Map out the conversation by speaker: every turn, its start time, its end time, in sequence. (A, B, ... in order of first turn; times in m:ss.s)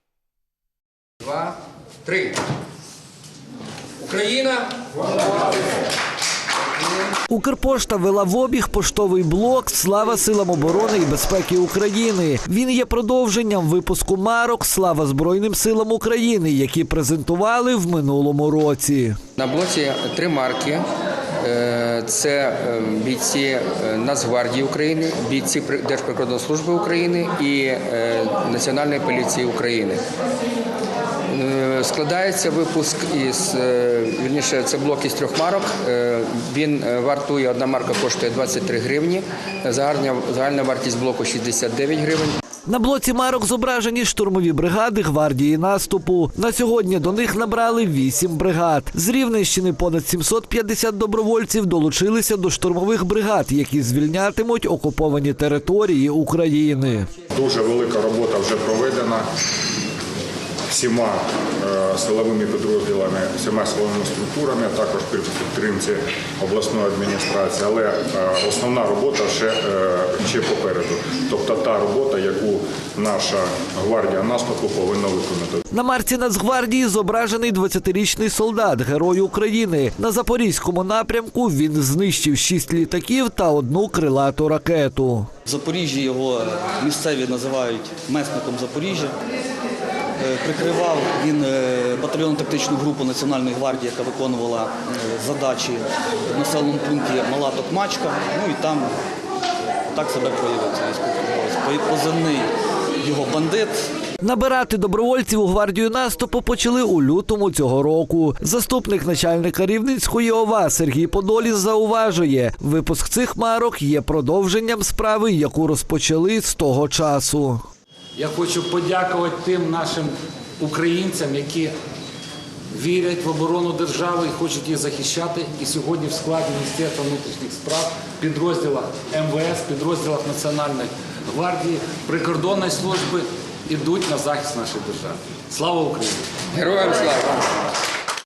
0:01.2-0:01.5 A
0:02.0-0:02.4 A
0:04.0-0:04.7 A
0:07.3-0:19.2 B
0:19.4-0:20.8 A
0:21.4-0:30.0 A
0:31.3-0:42.4 A
0:42.7-0:57.1 B
0:57.3-0:59.2 C
1:00.7-1:15.6 C
1:15.7-1:25.3 B
1:25.4-1:29.1 D
1:30.2-1:38.9 D
1:39.9-1:43.9 D
1:44.2-1:57.6 B
1:58.2-2:01.7 E
2:02.7-2:16.3 E
2:16.5-2:17.4 A